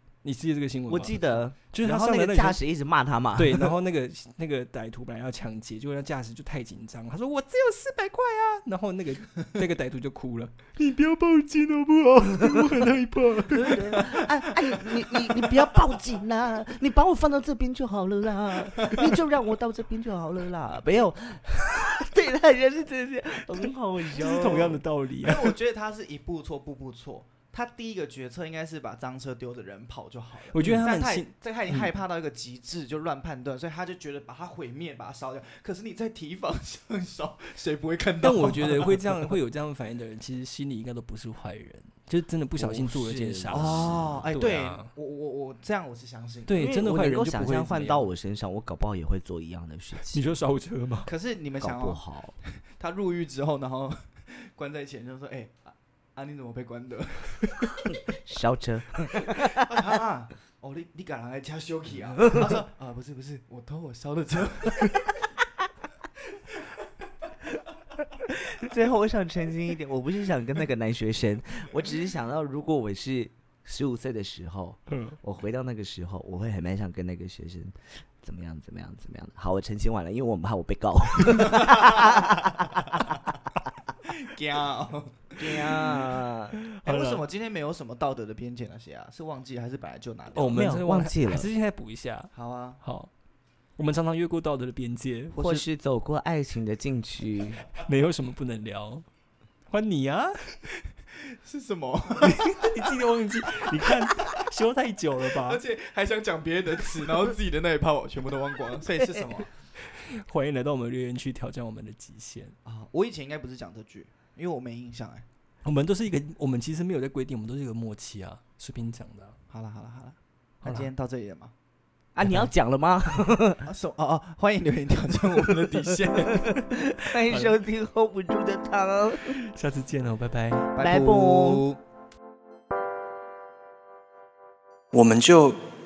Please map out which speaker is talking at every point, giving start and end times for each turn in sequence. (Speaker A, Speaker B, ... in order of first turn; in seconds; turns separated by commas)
Speaker A: 0.2-2.6, Speaker B: 0.9-3.7, Speaker A: 3.4-14.8, Speaker B: 12.4-12.8, Speaker B: 13.5-24.8, Speaker A: 23.6-25.5, Speaker C: 25.2-39.4, Speaker A: 30.5-31.9, Speaker A: 38.2-44.9, Speaker B: 42.5-44.3, Speaker C: 43.5-46.6, Speaker A: 46.5-48.1, Speaker B: 46.6-50.2, Speaker A: 50.1-51.1, Speaker C: 51.0-57.5, Speaker B: 51.6-52.4, Speaker B: 57.9-59.7, Speaker C: 59.1-65.1, Speaker B: 62.2-62.5, Speaker B: 68.3-83.2, Speaker A: 74.9-75.2, Speaker C: 81.4-82.2, Speaker C: 84.0-85.9, Speaker B: 85.4-86.6, Speaker A: 86.7-87.2, Speaker C: 86.8-90.8, Speaker A: 90.3-93.1, Speaker B: 90.5-91.5, Speaker C: 92.3-92.8, Speaker A: 93.8-95.6, Speaker B: 95.3-97.7, Speaker A: 97.8-99.0, Speaker A: 99.7-100.7, Speaker C: 101.1-102.9, Speaker A: 102.2-105.6, Speaker C: 105.3-109.5, Speaker A: 109.8-112.5, Speaker C: 112.6-115.2, Speaker A: 115.6-119.4, Speaker C: 119.5-121.5, Speaker A: 120.6-120.9, Speaker B: 122.1-123.7, Speaker C: 123.6-126.6, Speaker B: 126.3-129.4, Speaker A: 127.3-127.5, Speaker A: 129.3-130.7, Speaker C: 130.7-131.8, Speaker B: 130.8-131.6, Speaker A: 134.9-135.6